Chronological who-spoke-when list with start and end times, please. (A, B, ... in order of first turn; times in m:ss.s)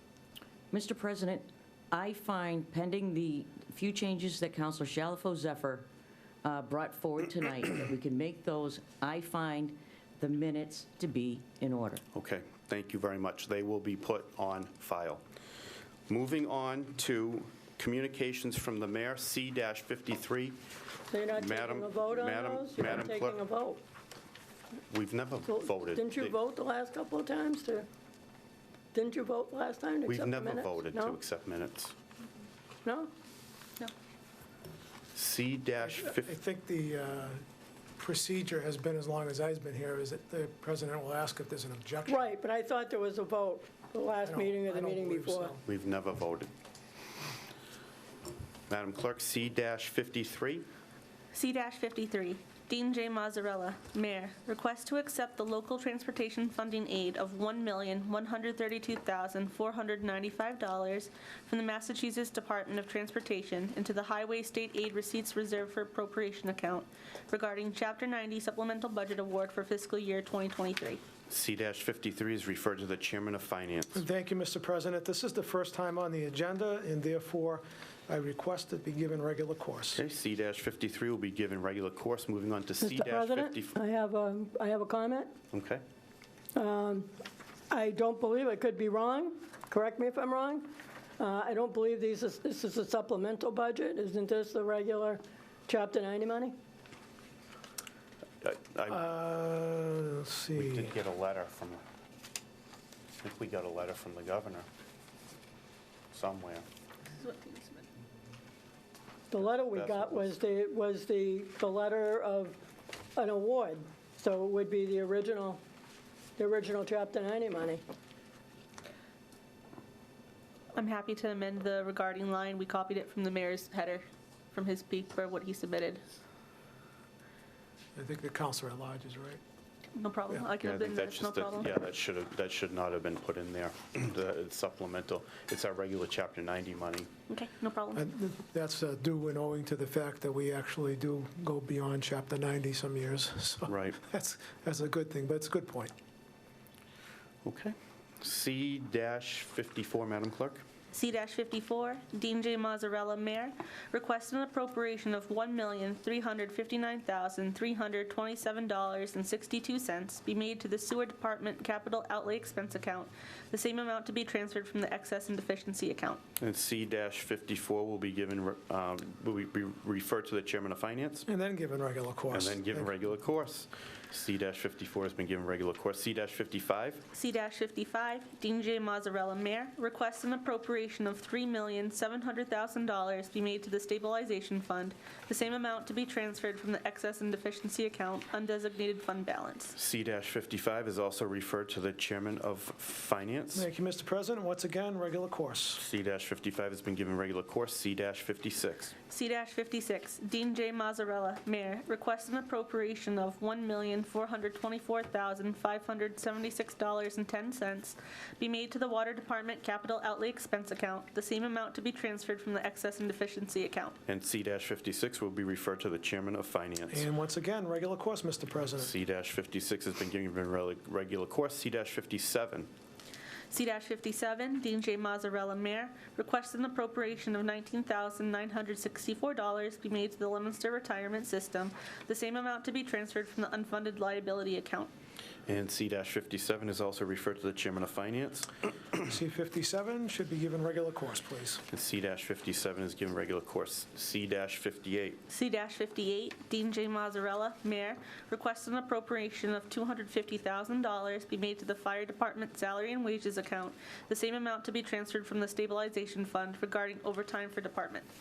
0:00.7-0:05.9 A
0:06.4-0:12.0 A
0:12.1-0:15.2 B
0:16.1-0:20.6 B
0:21.1-0:23.8 C
0:21.3-0:23.4 B
0:24.9-0:26.4 B
0:25.4-0:27.9 C
0:28.9-0:31.2 C
0:30.1-0:31.9 B
0:32.8-0:33.1 C
0:35.1-0:36.3 B
0:35.8-0:37.4 D
0:38.0-0:42.3 D
0:42.1-0:45.5 C
0:44.2-0:45.6 D
0:45.7-0:46.5 B
0:48.7-0:50.6 B
0:51.3-1:11.0 E
1:11.3-1:14.0 B
1:13.9-1:20.0 D
1:19.9-1:23.7 B
1:22.8-1:25.3 C
1:25.5-1:25.8 B
1:26.5-1:27.1 C
1:27.7-1:36.6 C
1:38.4-1:39.0 B
1:38.9-1:40.9 D
1:40.6-1:41.8 B
1:43.2-1:44.7 B
1:46.1-1:46.6 B
1:47.1-1:47.8 E
1:49.3-1:52.6 C
1:49.4-1:50.3 B
1:53.2-1:55.6 C
1:56.4-1:57.8 C
2:00.7-2:06.0 E
2:08.0-2:09.4 D
2:09.9-2:11.7 E
2:10.6-2:17.1 B
2:17.3-2:18.0 E
2:17.9-2:25.9 D
2:23.7-2:24.0 B
2:27.4-2:30.6 B
2:30.9-2:46.2 E
2:46.4-2:51.2 B
2:51.3-2:52.9 D
2:52.3-2:57.0 B
2:57.1-3:09.8 E
3:09.8-3:13.7 B
3:13.5-3:15.8 D
3:15.8-3:18.9 B
3:19.1-3:34.0 E
3:34.1-3:37.0 B
3:36.9-3:38.9 D
3:38.8-3:42.7 B
3:43.5-3:54.9 E
3:55.4-3:58.5 B
3:59.0-4:01.6 D
4:01.7-4:05.2 B
4:05.3-4:18.1 E